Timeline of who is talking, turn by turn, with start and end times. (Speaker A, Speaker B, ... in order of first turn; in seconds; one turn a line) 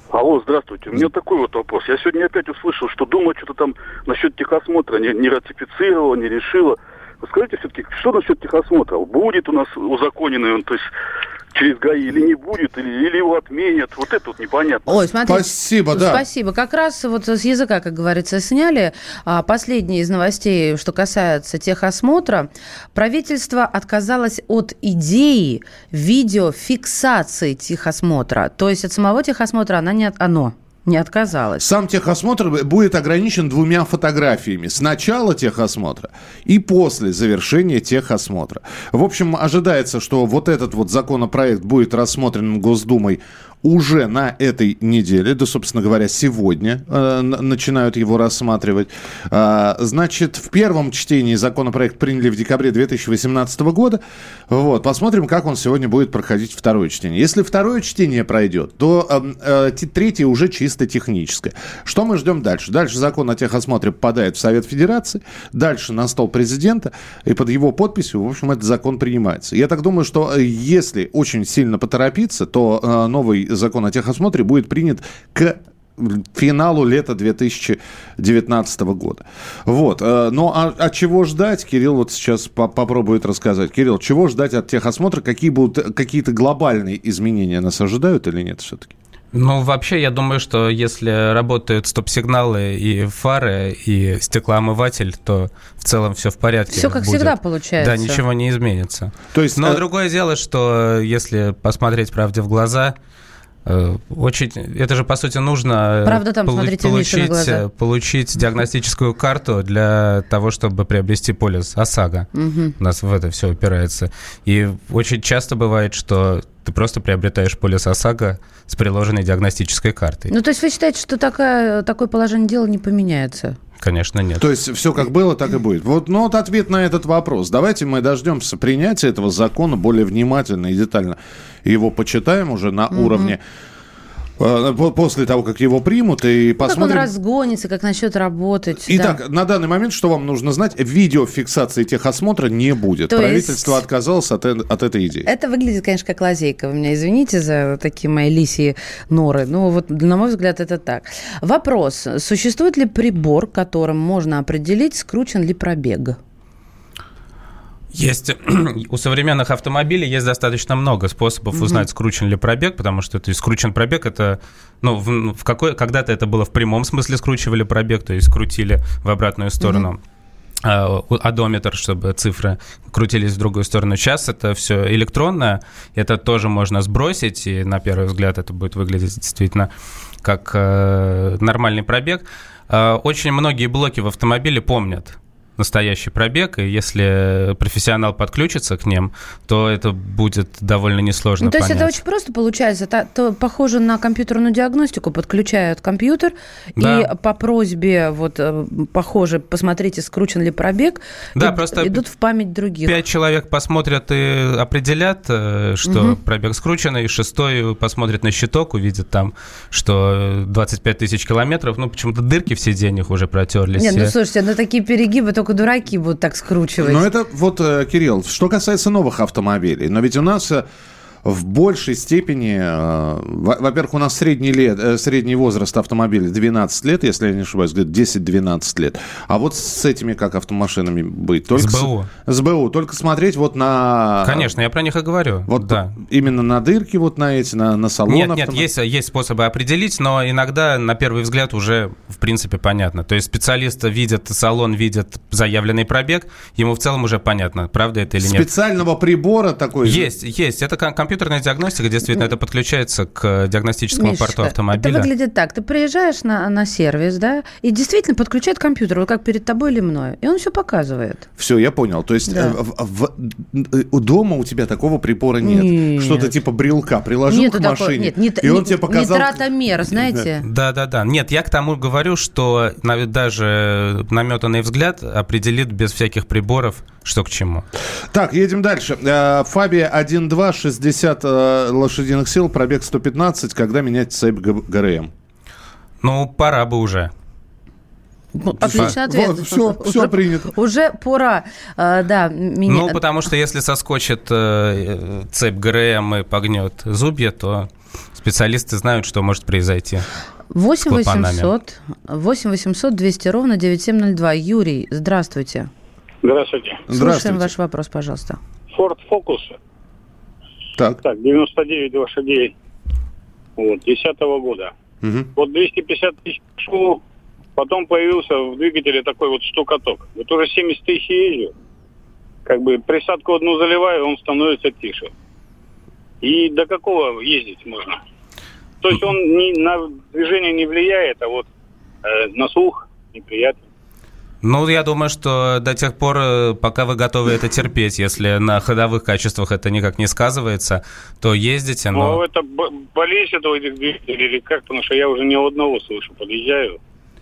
Speaker A: 0.1-10.9
Speaker A: 11.5-15.0
Speaker B: 14.8-31.6
Speaker C: 15.2-16.2
Speaker C: 31.6-88.9
Speaker D: 89.3-102.9
Speaker B: 96.7-98.2
Speaker C: 99.3-99.8
Speaker D: 103.6-120.3
Speaker B: 106.0-107.6
Speaker B: 112.3-112.7
Speaker B: 120.3-123.6
Speaker D: 123.8-124.5
Speaker C: 124.4-133.4
Speaker B: 132.9-133.3
Speaker C: 134.4-137.1
Speaker B: 136.6-139.2
Speaker C: 138.9-145.3
Speaker B: 143.1-143.8
Speaker B: 145.2-156.2
Speaker D: 157.9-170.0
Speaker B: 161.5-161.8
Speaker B: 169.6-169.9
Speaker D: 170.6-179.7
Speaker D: 180.2-191.9
Speaker B: 191.4-202.9
Speaker D: 196.8-197.1
Speaker D: 201.3-202.0
Speaker D: 202.8-214.1
Speaker B: 205.8-206.2
Speaker B: 213.8-217.1
Speaker C: 216.8-220.6
Speaker C: 221.2-234.5
Speaker D: 231.5-232.1
Speaker D: 234.2-235.9
Speaker C: 235.5-238.7
Speaker D: 238.1-248.4
Speaker C: 248.2-250.1
Speaker D: 249.8-255.1
Speaker B: 253.9-261.2
Speaker C: 261.4-269.4
Speaker B: 262.3-262.6
Speaker B: 265.4-266.3
Speaker B: 267.3-270.4
Speaker C: 269.9-270.2
Speaker D: 270.4-277.6
Speaker C: 278.1-285.1
Speaker D: 286.0-287.1
Speaker B: 288.3-293.0
Speaker C: 288.6-290.5
Speaker D: 292.7-300.1
Speaker B: 300.5-305.7
Speaker D: 300.9-301.5
Speaker E: 306.2-306.8
Speaker C: 306.9-307.5
Speaker B: 306.9-308.4
Speaker E: 308.7-309.6
Speaker E: 311.0-312.5
Speaker E: 313.6-314.7
Speaker C: 315.0-315.3
Speaker E: 315.3-317.0
Speaker E: 317.6-321.5
Speaker E: 322.4-325.1
Speaker E: 326.2-328.0
Speaker E: 328.8-331.4
Speaker E: 332.0-333.6
Speaker D: 334.4-342.2
Speaker E: 341.9-346.8